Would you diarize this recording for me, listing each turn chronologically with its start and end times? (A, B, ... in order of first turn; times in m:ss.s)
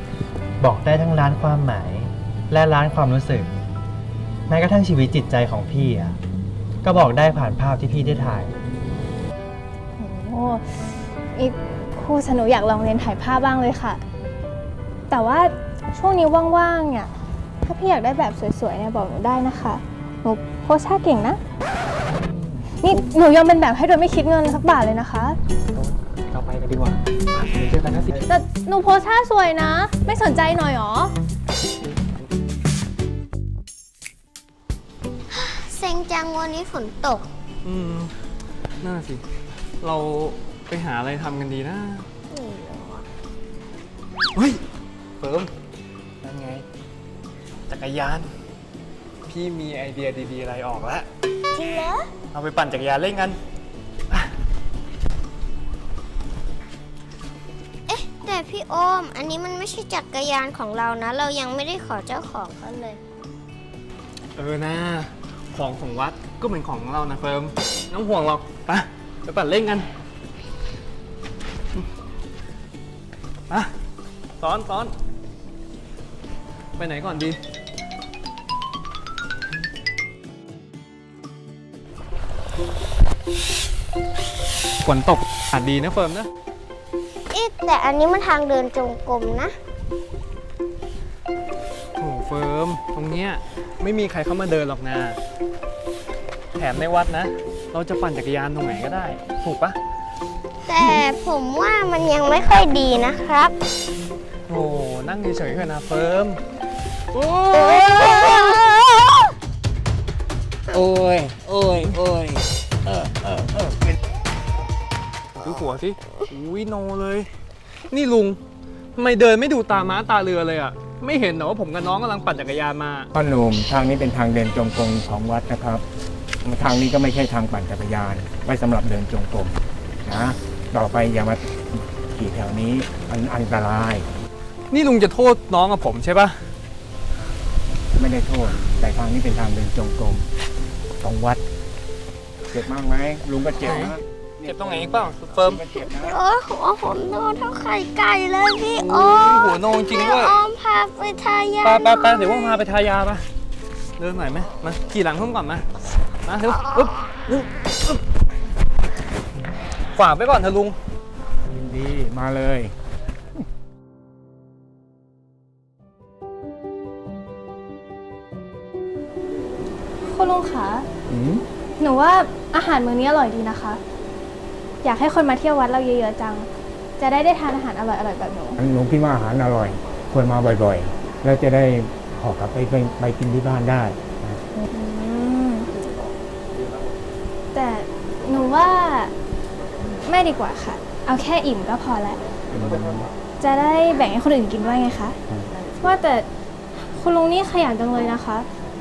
0:00.6-0:03.5 A
0:04.5-0:06.2 A
0:06.8-0:08.5 A
0:10.0-0:10.6 B
0:11.3-0:14.0 B
0:15.1-0:17.1 B
0:17.6-0:21.4 B
0:22.8-0:25.4 B
0:26.3-0:27.0 A
0:27.5-0:28.1 A
0:28.3-0:31.1 B
0:35.3-0:37.3 C
0:37.6-0:38.1 D
0:38.8-0:39.2 D
0:39.8-0:42.0 D
0:42.3-0:43.0 C
0:44.4-0:44.6 D
0:45.2-0:45.5 D
0:46.2-0:46.6 D
0:47.7-0:48.3 D
0:49.2-0:51.1 D
0:51.5-0:52.1 C
0:52.3-0:53.4 D
0:57.9-1:03.0 C
1:04.4-1:09.9 D
1:14.4-1:14.9 D
1:16.8-1:17.4 D
1:24.8-1:26.3 D
1:27.3-1:29.5 C
1:32.0-1:35.2 D
1:36.6-1:39.8 D
1:40.6-1:43.5 C
1:44.5-1:46.4 D
1:47.1-1:48.1 D
1:47.5-1:48.9 C
1:50.7-1:53.8 D
1:55.4-1:57.3 D
1:57.9-1:58.4 D
1:58.9-2:03.1 D
2:03.1-2:05.8 E
2:06.4-2:14.1 E
2:14.7-2:16.4 D
2:17.9-2:20.3 E
2:21.0-2:21.4 E
2:22.5-2:26.2 E
2:23.6-2:23.9 D
2:24.4-2:25.6 D
2:26.0-2:32.5 C
2:28.8-2:30.4 D
2:31.6-2:33.2 D
2:34.0-2:35.7 D
2:36.2-2:38.0 D
2:39.9-2:40.8 D
2:41.4-2:42.7 E
2:50.0-2:50.9 B
2:51.1-2:51.4 E
2:51.8-2:53.8 B
2:54.8-2:56.5 B
2:57.0-2:58.6 B
2:58.6-3:04.4 E
3:04.6-3:05.7 B
3:07.5-3:09.1 B
3:10.0-3:12.2 B
3:12.5-3:13.1 E
3:13.4-3:15.2 B
3:15.8-3:18.5 B